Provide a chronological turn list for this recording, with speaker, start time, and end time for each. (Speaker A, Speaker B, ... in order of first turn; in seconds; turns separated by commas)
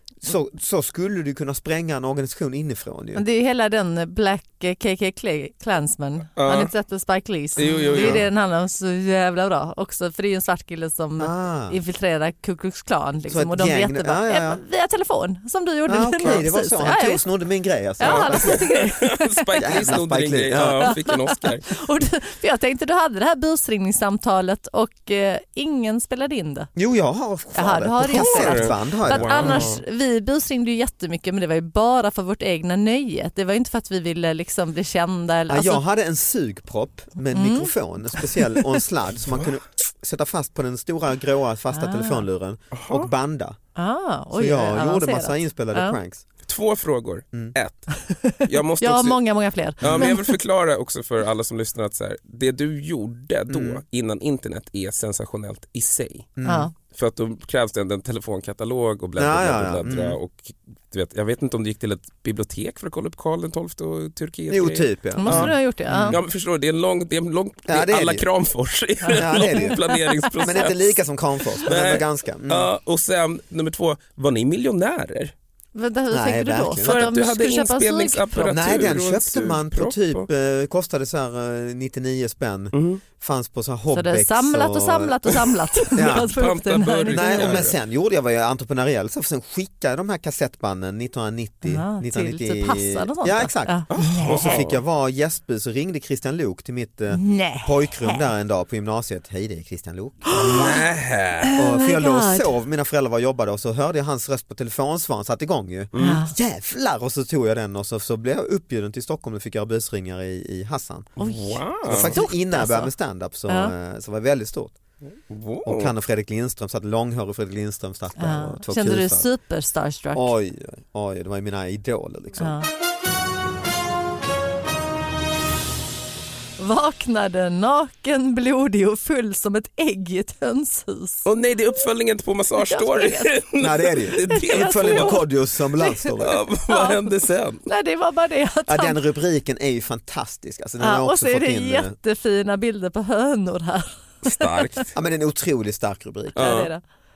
Speaker A: 0.2-3.2, Speaker B: 3.1-17.2, Speaker C: 6.3-6.7, Speaker C: 7.6-8.2, Speaker A: 7.9-8.2, Speaker A: 11.2-11.8, Speaker A: 13.3-14.6, Speaker A: 15.9-18.6, Speaker B: 18.0-19.8, Speaker C: 18.0-21.7, Speaker A: 19.6-20.9, Speaker B: 20.8-26.7, Speaker A: 26.8-29.7, Speaker B: 27.6-35.8, Speaker C: 28.1-29.8, Speaker A: 35.5-43.6, Speaker B: 37.3-37.7, Speaker B: 41.7-42.2, Speaker C: 42.7-43.1, Speaker B: 43.8-46.0, Speaker A: 44.3-46.2, Speaker C: 46.5-47.9, Speaker B: 47.9-50.3, Speaker C: 48.4-49.2, Speaker C: 49.8-56.3, Speaker A: 49.8-50.1, Speaker A: 53.5-53.8, Speaker A: 56.4-56.7, Speaker B: 56.4-56.7, Speaker C: 56.9-65.5, Speaker A: 59.2-60.2, Speaker A: 64.5-66.2, Speaker B: 65.2-66.2, Speaker C: 66.1-70.8, Speaker A: 67.7-68.2, Speaker B: 69.0-70.4, Speaker A: 69.2-69.8, Speaker A: 70.4-72.7, Speaker C: 71.7-75.3, Speaker B: 75.7-78.8, Speaker A: 76.1-77.0, Speaker C: 76.8-80.2, Speaker A: 78.5-85.2, Speaker C: 82.7-83.0, Speaker B: 83.9-87.6, Speaker C: 85.8-87.7, Speaker A: 85.9-86.3, Speaker A: 87.1-100.7, Speaker B: 91.6-94.6, Speaker C: 93.9-94.8, Speaker B: 97.1-98.3, Speaker B: 100.2-100.8, Speaker C: 100.3-101.5, Speaker B: 101.4-102.5, Speaker A: 101.6-111.1, Speaker C: 105.9-106.2, Speaker B: 106.0-106.3, Speaker B: 111.2-112.9, Speaker C: 111.2-112.2, Speaker A: 111.8-114.8, Speaker B: 113.5-113.7, Speaker C: 115.3-115.9, Speaker A: 115.6-119.3, Speaker B: 118.2-120.3, Speaker A: 120.1-122.6, Speaker B: 122.4-122.7, Speaker B: 126.6-131.2, Speaker C: 131.2-135.2, Speaker B: 132.6-133.3, Speaker A: 133.6-136.4, Speaker B: 134.3-135.2, Speaker B: 135.8-136.0, Speaker C: 136.2-137.6, Speaker B: 136.7-136.9, Speaker B: 137.7-139.0, Speaker A: 138.7-141.9, Speaker B: 140.8-144.8, Speaker C: 144.2-144.8, Speaker A: 144.9-146.5, Speaker B: 146.3-146.8, Speaker C: 146.3-146.7